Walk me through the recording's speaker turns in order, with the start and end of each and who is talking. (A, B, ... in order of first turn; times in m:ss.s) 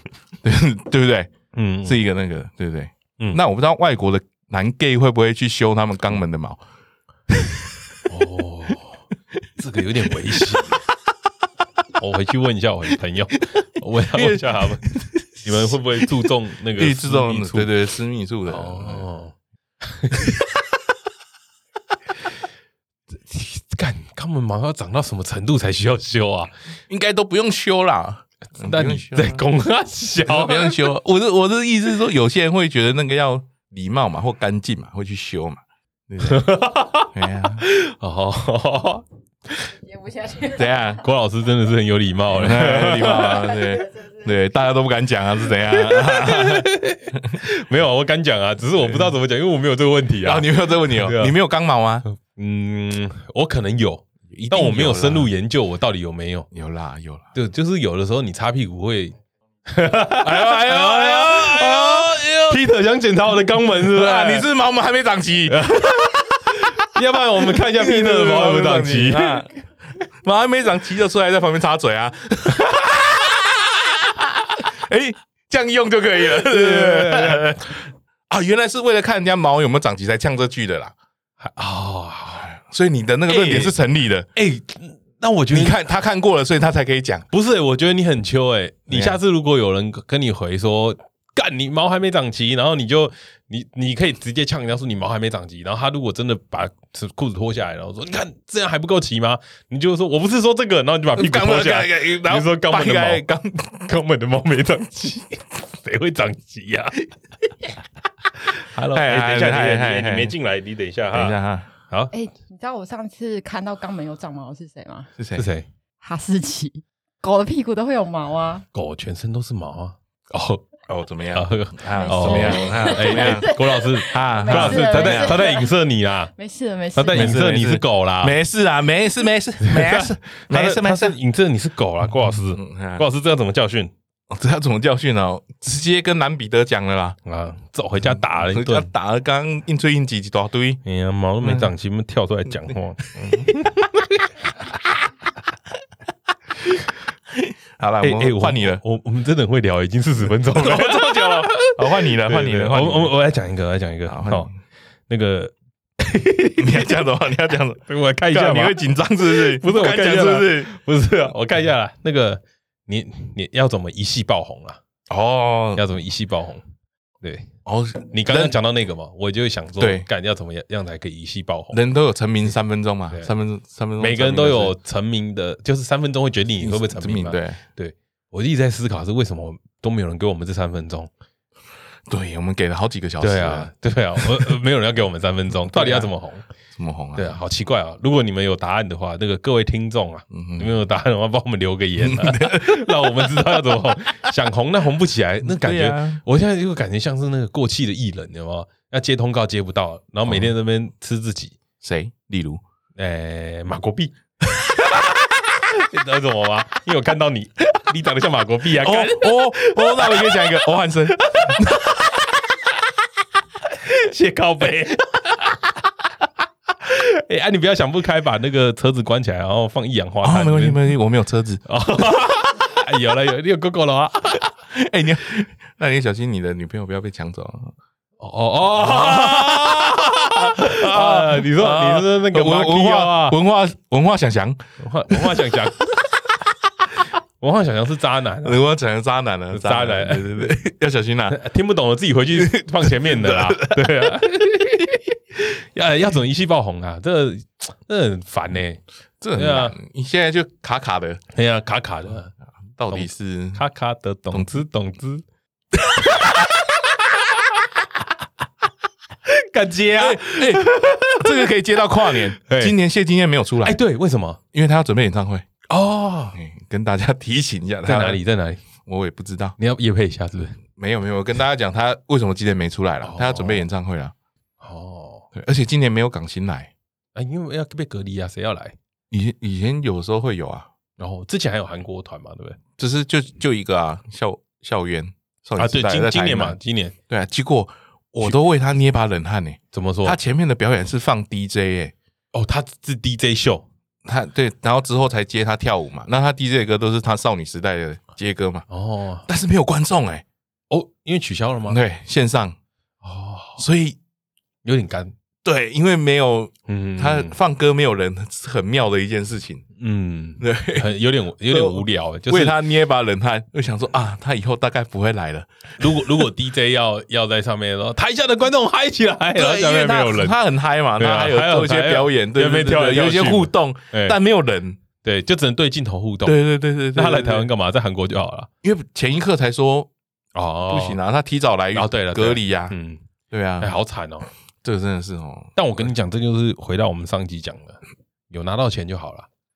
0:00.4-0:01.3 A
0:01.5-0:02.0 B
0:01.8-0:06.6 A
0:07.3-0:07.7 A
0:08.1-0:09.0 B
0:09.6-0:10.8 B
0:12.0-0:17.7 B
0:14.2-0:19.0 A
0:18.5-0:20.4 B
0:23.3-0:26.5 B
0:26.9-0:29.4 A
0:28.6-0:30.8 B
0:30.2-0:37.6 A
0:36.2-0:39.7 B
0:39.9-0:40.6 C
0:40.4-0:41.0 A
0:41.0-0:43.5 B
0:42.3-0:47.4 A
0:45.7-0:51.4 B
0:48.8-0:49.2 A
0:50.2-0:52.0 A
0:52.1-0:56.5 B
0:54.3-0:55.3 A
0:56.5-0:57.3 A
0:57.4-1:04.5 B
1:00.2-1:02.6 A
1:03.8-1:06.5 A
1:05.5-1:09.4 B
1:07.4-1:09.5 A
1:10.1-1:20.9 A
1:16.4-1:17.6 B
1:21.4-1:22.5 B
1:22.4-1:24.3 A
1:23.3-1:23.8 B
1:24.3-1:25.8 B
1:25.5-1:27.3 A
1:27.3-1:43.2 B
1:28.9-1:29.2 A
1:41.1-1:43.9 A
1:43.8-1:47.1 B
1:48.4-1:51.4 B
1:48.8-1:50.3 A
1:51.1-1:51.7 A
1:52.1-1:55.1 C
1:55.2-1:55.5 A
1:55.4-1:55.7 B
1:56.0-1:58.6 C
1:58.7-2:00.7 B
2:00.9-2:05.5 A
2:01.3-2:06.3 B
2:01.8-2:05.7 C
2:06.4-2:07.4 C
2:07.0-2:08.4 B
2:07.1-2:11.2 A
2:09.6-2:13.9 B
2:12.5-2:13.0 A
2:14.3-2:17.2 A
2:17.2-2:18.9 B
2:18.0-2:20.8 A
2:20.8-2:24.0 B
2:21.4-2:21.7 A
2:23.2-2:23.6 A
2:27.3-2:28.8 A
2:28.0-2:34.5 B
2:30.5-2:33.1 A
2:34.1-2:34.5 A
2:35.1-2:37.0 B
2:36.6-2:40.7 A
2:37.9-2:44.8 B
2:45.1-2:45.8 A
2:45.8-2:46.6 B
2:47.2-2:47.5 B
2:47.7-2:48.6 A
2:48.1-2:51.8 B
2:49.8-2:50.1 A
2:51.7-2:54.8 A
2:54.0-3:01.1 B
2:56.6-2:57.6 A
3:02.1-3:04.6 A
3:03.2-3:06.4 B
3:05.7-3:06.1 A
3:06.8-3:07.4 A
3:07.2-3:21.6 B
3:10.3-3:10.7 A
3:12.0-3:13.4 A
3:15.4-3:16.2 A
3:21.8-3:22.6 A
3:23.0-3:24.2 B
3:25.5-3:30.6 B
3:28.8-3:31.9 A
3:31.2-3:32.2 B
3:33.6-3:35.5 B
3:36.8-3:40.8 B
3:40.2-3:41.6 A
3:41.7-3:44.5 B
3:44.4-3:47.7 A
3:48.2-3:53.4 B
3:48.8-3:55.5 A
3:54.8-3:55.9 B
3:57.4-3:58.6 B
3:58.4-4:01.4 A
3:59.5-4:00.6 B
4:01.3-4:08.8 B
4:02.4-4:04.2 A
4:09.2-4:11.2 A
4:09.4-4:09.8 B
4:11.3-4:12.3 B
4:12.8-4:13.6 A
4:12.9-4:15.2 B
4:19.3-4:21.5 B
4:20.0-4:23.8 A
4:22.4-4:22.8 B
4:23.6-4:24.4 B
4:24.5-4:25.5 A
4:25.7-4:26.4 B
4:26.4-4:28.2 A
4:27.8-4:28.6 B
4:28.9-4:29.6 A
4:29.6-4:30.6 B
4:30.8-4:34.1 A
4:33.0-4:33.7 B
4:34.6-4:35.3 B
4:35.3-4:36.7 A
4:37.2-4:38.8 B
4:39.1-4:40.7 A
4:41.0-4:42.6 B
4:42.8-4:46.6 A
4:45.6-4:47.0 B
4:47.1-4:51.9 A
4:49.7-4:50.2 B
4:52.3-4:53.6 B
4:54.0-4:58.7 A
4:58.7-4:59.3 B
4:59.3-5:00.2 A
5:00.7-5:01.8 B
5:01.7-5:02.6 A
5:03.0-5:03.6 B
5:03.6-5:04.0 A
5:04.6-5:05.1 B
5:05.4-5:09.6 A
5:06.7-5:07.4 B
5:09.8-5:12.6 B
5:10.4-5:10.9 A
5:11.4-5:16.3 A
5:15.8-5:20.4 B
5:19.4-5:24.8 A
5:21.0-5:24.2 B
5:25.0-5:26.4 B
5:26.2-5:27.5 A
5:26.9-5:28.5 B
5:28.6-5:29.9 A
5:30.4-5:31.0 B
5:30.7-5:32.8 A
5:31.8-5:33.0 B
5:33.3-5:33.8 A
5:33.6-5:34.3 B
5:34.6-5:35.9 A
5:35.6-5:39.3 B